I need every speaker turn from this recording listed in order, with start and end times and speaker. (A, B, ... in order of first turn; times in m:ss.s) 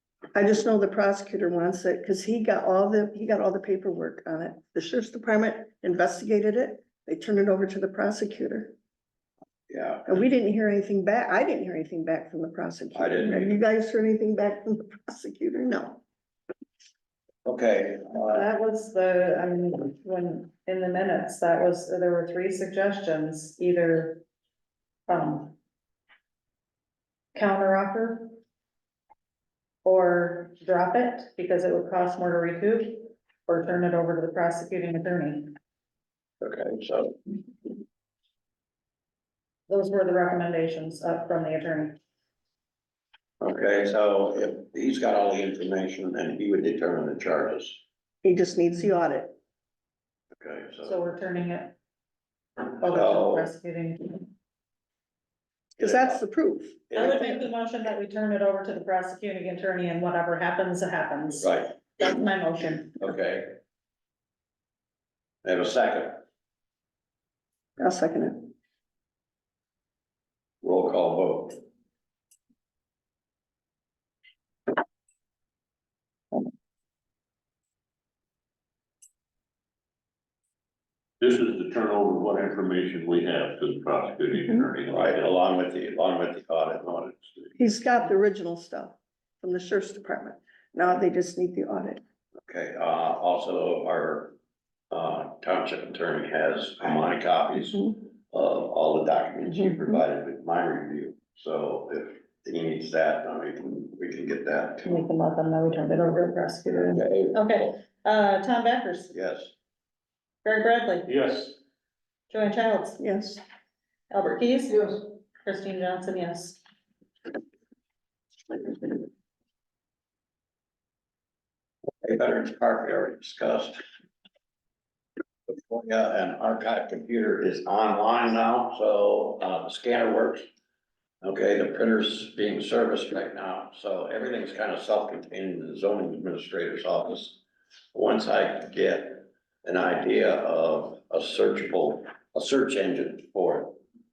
0:00.3-0:08.7 A
0:09.7-0:10.1 B
0:10.1-0:16.0 A
0:12.9-0:13.6 B
0:17.4-0:18.5 B
0:18.3-0:24.2 C
0:25.1-0:25.6 C
0:27.3-0:28.4 C
0:29.8-0:35.5 C
0:36.4-0:37.2 B
0:39.7-0:42.0 C
0:43.4-0:47.8 B
0:48.2-0:49.4 A
0:50.4-0:51.0 B
0:50.8-0:51.8 C
0:52.8-0:54.3 C
0:52.8-0:53.5 B
0:55.8-0:56.2 B
0:55.8-0:57.5 A
0:56.9-0:57.2 B
0:57.0-1:03.0 C
1:01.4-1:01.8 B
1:03.0-1:03.6 B
1:05.4-1:06.2 B
1:07.8-1:08.5 A
1:10.6-1:11.6 B
1:21.2-1:25.3 D
1:24.9-1:27.5 B
1:27.6-1:32.0 A
1:32.5-1:34.4 B
1:34.9-1:45.1 B
1:44.8-1:49.1 C
1:46.9-1:47.8 B
1:49.1-1:49.5 B
1:50.4-1:51.1 C
1:51.1-1:51.6 D
1:52.3-1:53.0 C
1:53.0-1:53.4 A
1:54.1-1:56.6 C
2:02.0-2:03.8 B
2:05.5-2:10.4 B
2:11.2-2:17.4 B
2:17.9-2:23.8 B